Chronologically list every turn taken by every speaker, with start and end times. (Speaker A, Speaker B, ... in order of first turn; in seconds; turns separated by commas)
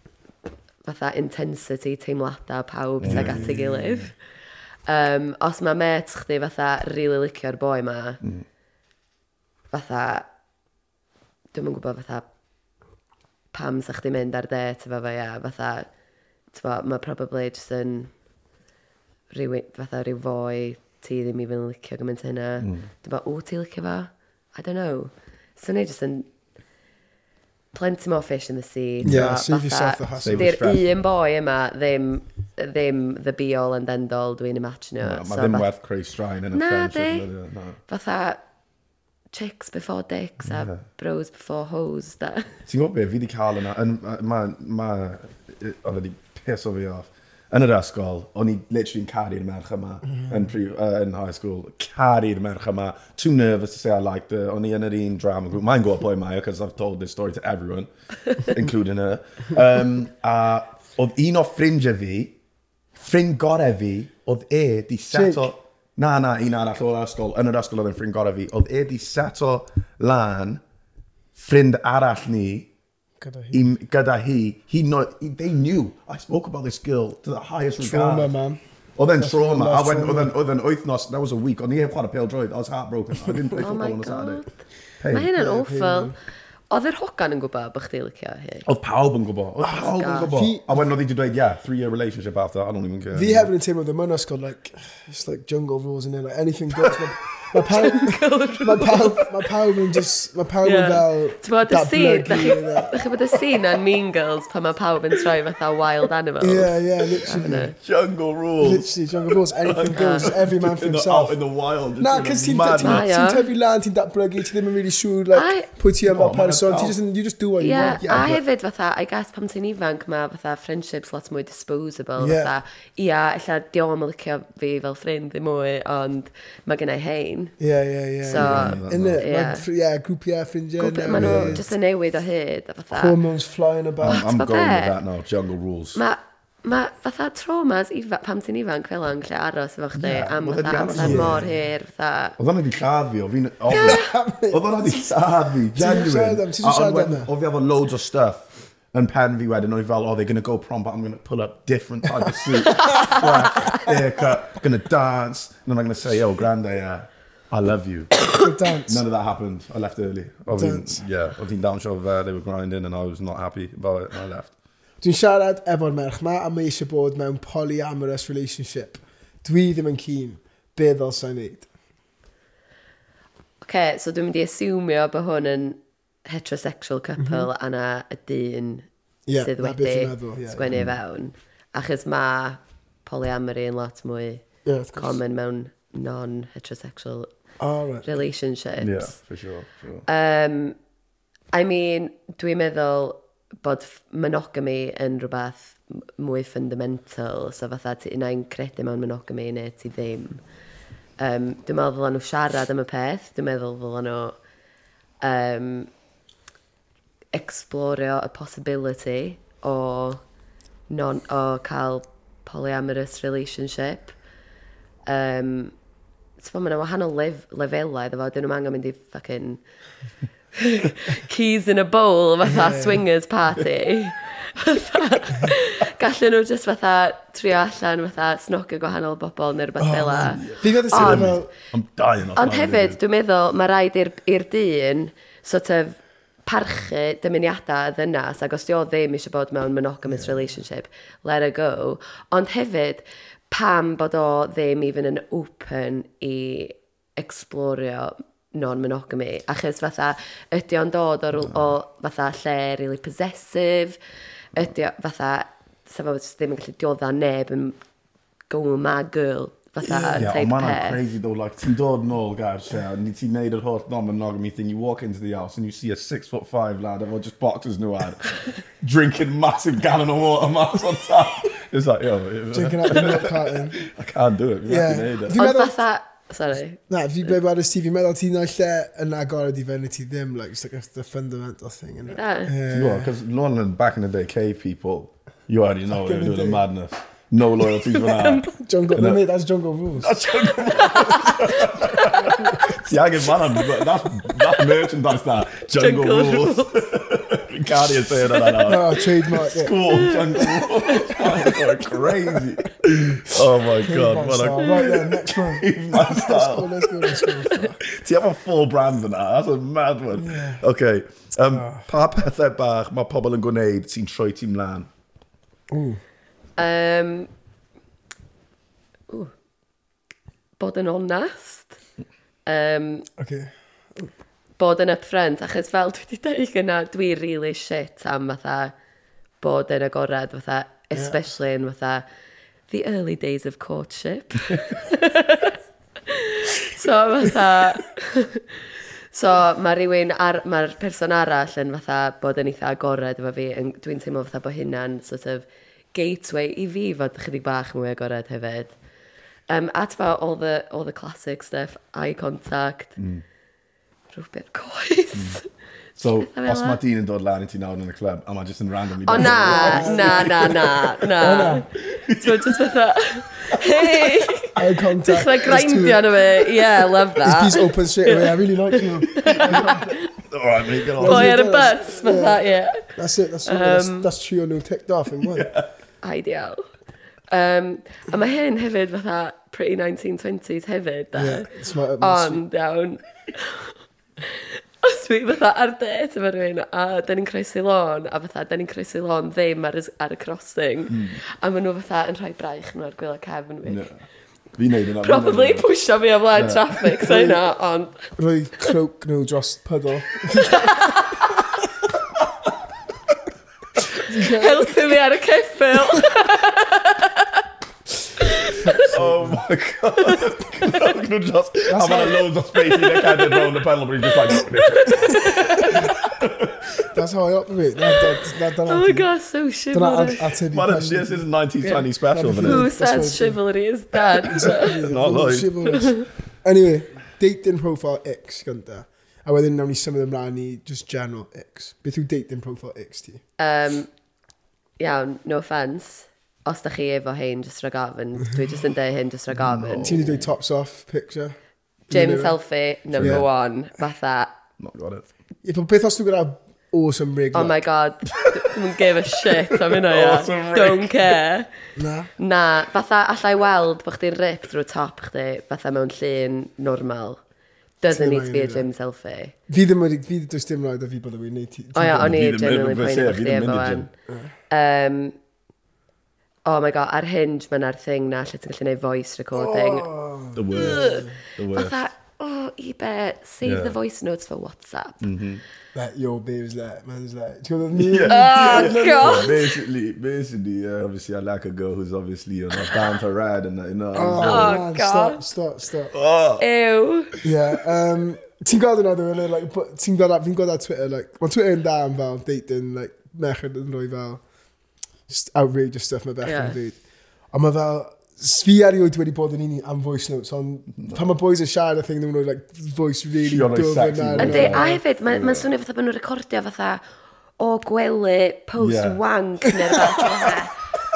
Speaker A: 0.8-4.1, Speaker B: 3.0-4.0, Speaker C: 3.1-3.7, Speaker A: 4.9-8.2, Speaker A: 9.7-10.3, Speaker A: 11.5-12.3, Speaker A: 13.5-15.9, Speaker A: 16.5-18.1, Speaker A: 19.3-26.3, Speaker B: 22.6-22.9, Speaker A: 27.7-35.7, Speaker C: 29.0-30.6, Speaker B: 30.2-30.9, Speaker B: 35.0-37.8, Speaker A: 36.5-37.3, Speaker A: 37.9-38.4, Speaker A: 39.3-42.5, Speaker B: 40.4-40.8, Speaker B: 42.7-62.4, Speaker B: 63.0-70.6, Speaker C: 65.1-65.5, Speaker B: 71.4-72.7, Speaker C: 73.2-73.7, Speaker B: 73.5-78.3, Speaker C: 77.8-78.6, Speaker B: 79.0-84.5, Speaker C: 79.2-80.3, Speaker A: 83.6-84.6, Speaker B: 85.0-85.3, Speaker A: 85.1-86.2, Speaker C: 85.3-86.1, Speaker A: 86.7-88.7, Speaker B: 88.7-93.5, Speaker C: 89.6-90.8, Speaker A: 89.7-90.3, Speaker C: 93.1-103.0, Speaker A: 97.7-99.3, Speaker A: 100.6-107.7, Speaker C: 106.4-107.7, Speaker B: 107.3-113.1, Speaker C: 108.6-111.4, Speaker A: 110.0-110.3, Speaker C: 112.0-118.4, Speaker A: 112.8-113.5, Speaker A: 115.3-115.7, Speaker B: 116.1-117.0, Speaker A: 117.6-127.6, Speaker B: 118.1-118.4, Speaker C: 122.2-122.5, Speaker C: 127.6-131.7, Speaker A: 128.2-129.7, Speaker B: 128.3-129.2, Speaker A: 130.8-133.2, Speaker B: 131.1-131.6, Speaker C: 132.9-134.2, Speaker B: 134.0-136.0, Speaker A: 134.1-135.0, Speaker A: 135.9-142.4, Speaker B: 140.0-141.6, Speaker C: 141.0-141.4, Speaker B: 142.4-158.2, Speaker C: 143.7-145.1, Speaker A: 143.7-144.0, Speaker C: 145.7-147.3, Speaker A: 152.8-153.2, Speaker C: 153.0-154.4, Speaker C: 158.3-159.0, Speaker B: 158.9-164.5, Speaker C: 160.6-161.0, Speaker C: 165.0-171.7, Speaker A: 173.6-187.3, Speaker C: 177.2-177.5, Speaker C: 179.3-180.8, Speaker B: 180.7-181.0, Speaker C: 184.7-185.2, Speaker C: 187.6-188.2, Speaker A: 188.0-189.2, Speaker B: 188.8-190.1, Speaker A: 190.1-190.8, Speaker A: 191.5-200.4, Speaker A: 201.2-204.4, Speaker A: 205.2-205.9, Speaker A: 207.3-210.2, Speaker A: 210.9-214.2, Speaker A: 215.1-215.7, Speaker A: 216.4-219.6, Speaker A: 220.6-231.4, Speaker C: 222.4-223.0, Speaker C: 229.8-231.5, Speaker B: 230.4-233.0, Speaker A: 232.4-254.0, Speaker B: 251.5-251.7, Speaker A: 254.6-257.8, Speaker A: 258.5-261.0, Speaker C: 259.8-260.3, Speaker B: 260.2-275.4, Speaker C: 272.5-273.8, Speaker C: 274.7-275.8, Speaker A: 275.3-276.8, Speaker C: 276.9-283.1, Speaker A: 282.1-282.5, Speaker B: 282.7-289.2, Speaker C: 285.9-286.6, Speaker A: 287.9-288.5, Speaker C: 288.6-290.1, Speaker B: 290.0-314.9, Speaker C: 290.9-291.3, Speaker A: 291.1-291.6, Speaker C: 292.1-292.8, Speaker A: 295.8-296.8, Speaker A: 298.3-298.7, Speaker C: 298.6-299.8, Speaker A: 299.9-301.6, Speaker C: 301.2-301.6, Speaker C: 302.3-307.8, Speaker C: 310.2-310.6, Speaker C: 311.5-311.9, Speaker C: 315.7-316.0, Speaker A: 316.6-317.3, Speaker A: 320.6-321.8, Speaker A: 322.5-323.1, Speaker C: 323.2-324.1, Speaker A: 324.6-328.7, Speaker A: 329.4-332.1, Speaker C: 330.9-331.2, Speaker A: 332.7-348.7, Speaker A: 349.5-353.0, Speaker B: 353.0-353.2, Speaker A: 354.1-355.4, Speaker B: 355.1-355.4, Speaker B: 356.0-360.9, Speaker A: 356.2-356.8, Speaker A: 359.1-370.1, Speaker C: 359.2-361.7, Speaker B: 361.9-362.6, Speaker C: 364.6-366.1, Speaker C: 367.2-370.0, Speaker B: 369.2-369.7, Speaker B: 370.3-371.4, Speaker C: 371.0-375.5, Speaker A: 371.0-372.9, Speaker A: 373.5-374.1, Speaker B: 375.4-375.7, Speaker A: 376.0-376.7, Speaker A: 377.3-393.9, Speaker C: 381.1-382.4, Speaker B: 390.9-391.2, Speaker B: 393.7-394.0, Speaker B: 394.6-395.7, Speaker A: 395.0-398.7, Speaker B: 396.3-397.2, Speaker C: 398.2-401.1, Speaker A: 400.4-401.3, Speaker C: 404.0-404.8, Speaker A: 404.2-407.4, Speaker A: 408.2-408.8, Speaker C: 408.6-409.4, Speaker B: 408.9-416.7, Speaker C: 411.7-412.2, Speaker A: 412.5-413.4, Speaker A: 414.3-416.1, Speaker C: 416.9-419.1, Speaker A: 418.7-420.3, Speaker C: 419.7-421.3, Speaker B: 420.5-422.7, Speaker A: 421.6-424.8, Speaker C: 422.1-423.4, Speaker B: 424.3-425.7, Speaker C: 424.3-433.2, Speaker A: 425.7-426.0, Speaker A: 433.4-433.9, Speaker A: 434.8-439.9, Speaker B: 439.3-440.3, Speaker C: 439.8-441.4, Speaker C: 441.9-442.4, Speaker A: 441.9-444.3, Speaker B: 442.9-443.3, Speaker B: 444.6-445.1, Speaker C: 445.4-447.6, Speaker A: 447.3-451.5, Speaker B: 449.5-451.2, Speaker C: 451.8-452.1, Speaker A: 452.2-457.2, Speaker A: 457.8-459.3, Speaker C: 457.9-458.7, Speaker C: 459.5-462.2, Speaker A: 461.8-463.9, Speaker B: 461.9-463.9, Speaker A: 464.5-465.2, Speaker A: 466.5-469.9, Speaker C: 469.3-471.1, Speaker B: 470.4-471.8, Speaker A: 470.5-475.0, Speaker B: 473.4-473.8, Speaker B: 475.0-475.4, Speaker C: 475.8-479.4, Speaker B: 477.8-484.6, Speaker A: 478.1-479.6, Speaker C: 483.9-485.9, Speaker A: 484.2-485.2, Speaker B: 485.9-486.4, Speaker A: 486.4-487.1, Speaker C: 487.2-494.2, Speaker C: 495.1-496.8, Speaker A: 496.2-496.6, Speaker C: 497.3-504.8, Speaker B: 500.8-501.0, Speaker B: 503.2-505.5, Speaker A: 504.2-506.8, Speaker A: 507.4-510.6, Speaker B: 508.6-509.0